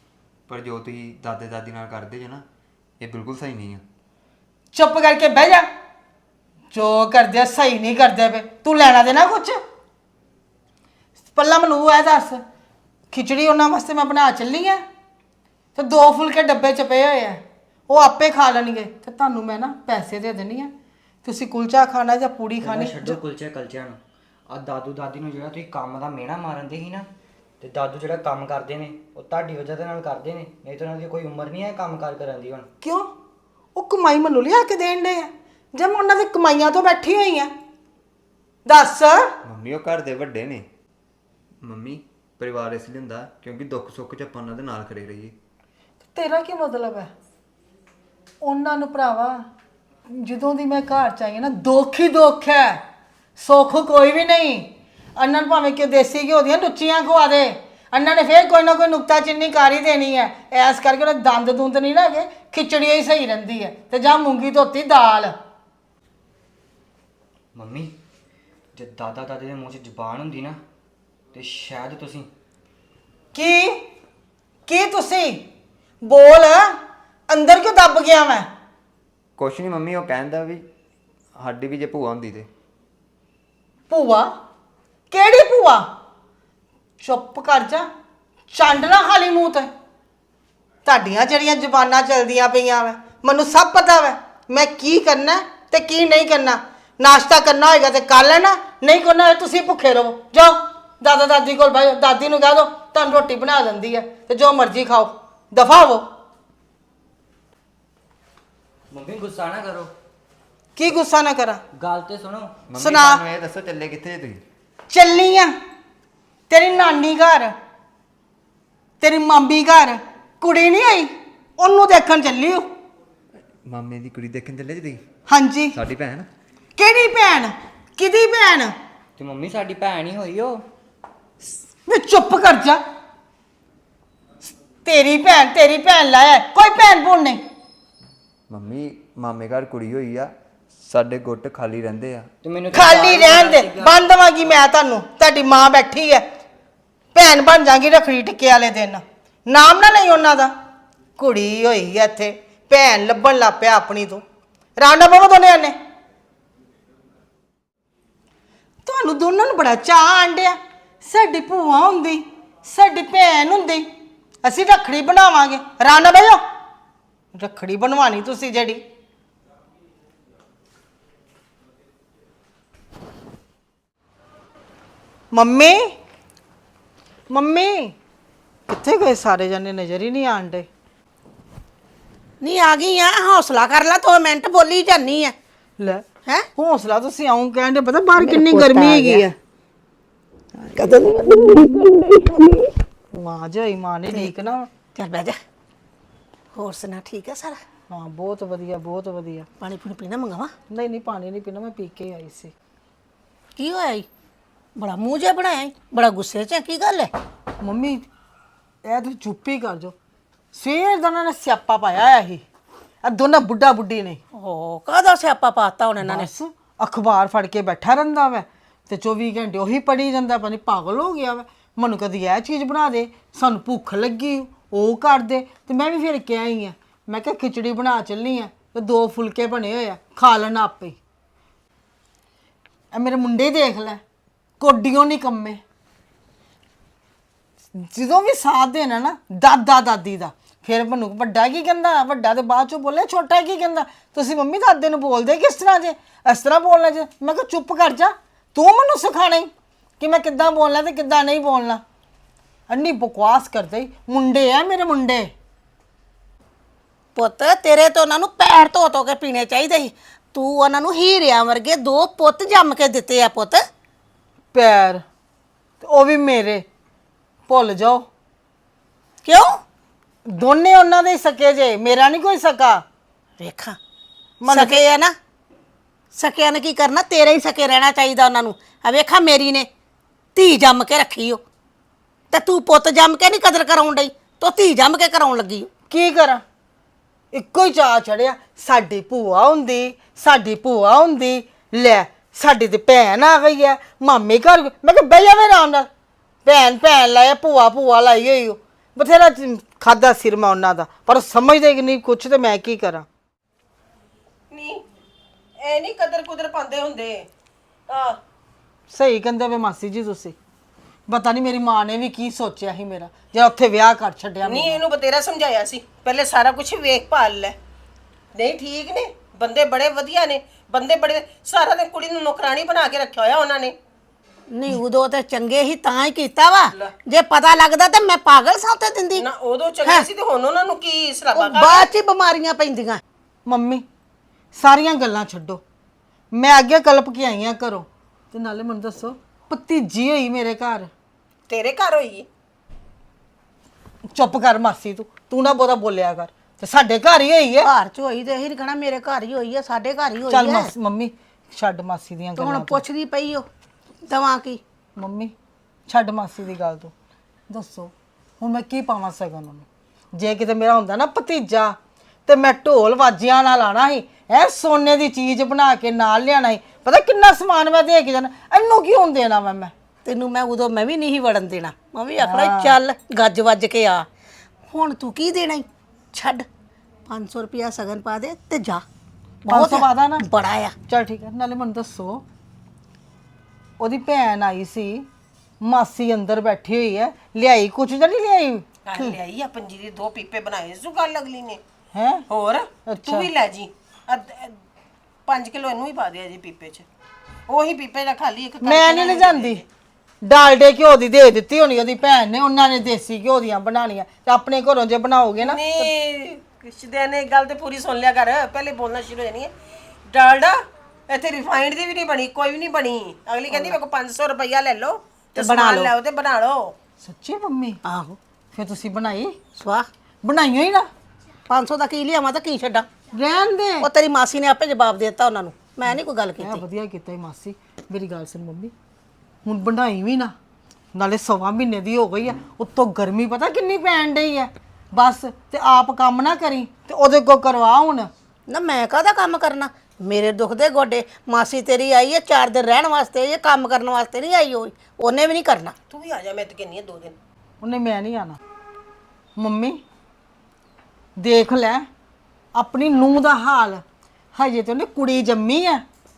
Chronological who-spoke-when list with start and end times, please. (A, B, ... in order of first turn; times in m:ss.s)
0:00.5-0:02.4 A
0:03.0-0:03.8 A
0:04.7-0:05.7 B
0:06.7-0:09.6 B
0:11.3-0:12.4 B
0:13.1-0:14.8 B
0:15.8-0:20.7 B
0:21.2-0:23.2 B
0:22.6-0:27.1 C
0:27.6-0:32.7 C
0:32.8-0:33.1 B
0:33.8-0:37.5 B
0:38.7-0:39.3 B
0:39.4-0:40.7 A
0:41.6-0:45.4 A
0:46.2-0:47.1 B
0:48.4-0:49.5 B
0:50.1-0:52.8 B
0:53.4-1:05.4 B
1:07.6-1:08.0 C
1:08.8-1:10.6 C
1:11.3-1:12.3 C
1:13.3-1:13.9 B
1:14.7-1:15.5 B
1:16.0-1:16.8 B
1:17.3-1:18.5 B
1:19.4-1:20.6 A
1:21.4-1:22.5 A
1:23.9-1:24.3 B
1:25.1-1:25.9 B
1:27.0-1:27.9 B
1:28.5-1:29.7 B
1:30.8-1:46.1 B
1:48.9-1:49.9 C
1:50.8-1:51.6 B
1:51.8-1:52.6 C
1:52.7-1:54.4 A
1:52.8-1:53.2 B
1:54.9-1:55.6 B
1:56.5-1:57.5 B
1:59.0-2:02.7 B
2:03.6-2:05.0 A
2:05.3-2:05.8 B
2:05.7-2:06.3 A
2:06.8-2:08.7 B
2:09.2-2:10.6 C
2:11.9-2:12.8 B
2:14.8-2:17.4 B
2:18.5-2:22.3 A
2:22.4-2:23.9 C
2:22.7-2:26.3 B
2:27.2-2:30.5 B
2:31.2-2:34.2 B
2:34.8-2:35.8 B
2:38.8-2:43.9 B
2:44.4-2:46.4 B
2:47.4-2:48.8 B
2:55.3-2:56.0 B
2:57.3-2:58.0 B
2:58.7-3:00.7 B
3:02.4-3:05.4 D
3:05.8-3:09.3 B
3:08.2-3:09.3 D
3:10.6-3:12.6 D
3:11.1-3:11.7 E
3:13.1-3:14.7 B
3:15.0-3:15.4 D
3:16.5-3:17.6 D
3:17.9-3:19.5 B
3:19.6-3:20.5 D
3:20.7-3:22.5 B
3:23.6-3:24.1 D
3:24.8-3:27.1 D
3:27.6-3:28.1 B
3:28.8-3:30.0 B
3:30.5-3:32.4 B
3:33.0-3:34.2 B
3:34.4-3:36.3 D
3:36.0-3:51.0 B
3:52.9-3:54.0 B
3:54.6-3:55.6 B
3:57.8-4:11.8 B
4:12.7-4:15.3 B
4:17.2-4:23.6 D
4:24.5-4:25.0 B
4:25.8-4:26.6 B
4:27.5-4:28.0 B
4:29.2-4:29.6 D
4:30.3-4:32.8 B
4:33.4-4:33.8 D
4:34.4-4:34.8 B
4:34.5-4:35.2 D
4:36.1-4:39.7 D
4:40.4-4:41.4 D
4:42.3-4:45.7 D
4:45.9-4:46.4 B
4:47.3-4:55.9 B
4:56.4-5:03.1 B
5:04.5-5:04.8 E
5:05.6-5:07.3 E
5:07.9-5:08.2 E
5:08.9-5:10.4 B
5:11.1-5:14.8 B
5:14.4-5:17.6 E
5:18.4-5:23.8 E
5:24.5-5:29.2 D
5:29.2-5:31.9 E
5:31.4-5:33.0 D
5:33.5-5:33.8 B
5:34.6-5:35.6 B
5:36.3-5:40.9 B
5:41.5-5:42.3 E
5:44.2-5:47.7 B
5:47.6-5:50.7 D
5:50.3-5:52.8 B
5:52.4-5:53.5 D
5:54.1-5:54.6 D
5:55.0-5:55.3 B
5:55.9-5:56.9 B
5:57.5-6:01.8 B
6:02.3-6:09.7 B
6:10.0-6:14.1 D
6:12.2-6:12.8 B
6:14.7-6:16.5 D
6:17.1-6:18.8 D
6:19.4-6:20.7 D
6:19.5-6:20.2 B
6:20.9-6:22.2 B
6:23.8-6:25.1 B
6:25.6-6:29.2 B
6:28.8-6:31.6 E
6:32.0-6:32.2 B
6:32.3-6:34.6 E
6:32.9-6:33.3 B
6:35.3-6:36.9 E
6:37.5-6:39.6 E
6:38.6-6:39.6 B
6:40.2-6:45.9 B
6:45.4-6:49.5 E
6:50.1-6:56.8 E
6:55.4-6:55.9 D
6:57.0-6:57.8 B
6:57.8-6:58.2 D
6:58.5-6:59.4 B
6:59.6-6:59.9 D
7:00.2-7:00.9 B
7:01.5-7:02.9 D
7:03.1-7:03.9 B
7:03.8-7:06.6 D
7:06.4-7:08.7 B
7:09.4-7:10.3 B
7:11.0-7:18.1 B
7:18.5-7:25.7 D
7:25.9-7:27.2 E
7:27.6-7:28.4 B
7:29.4-7:29.8 B
7:31.2-7:31.9 B
7:32.6-7:33.8 B
7:34.4-7:35.8 B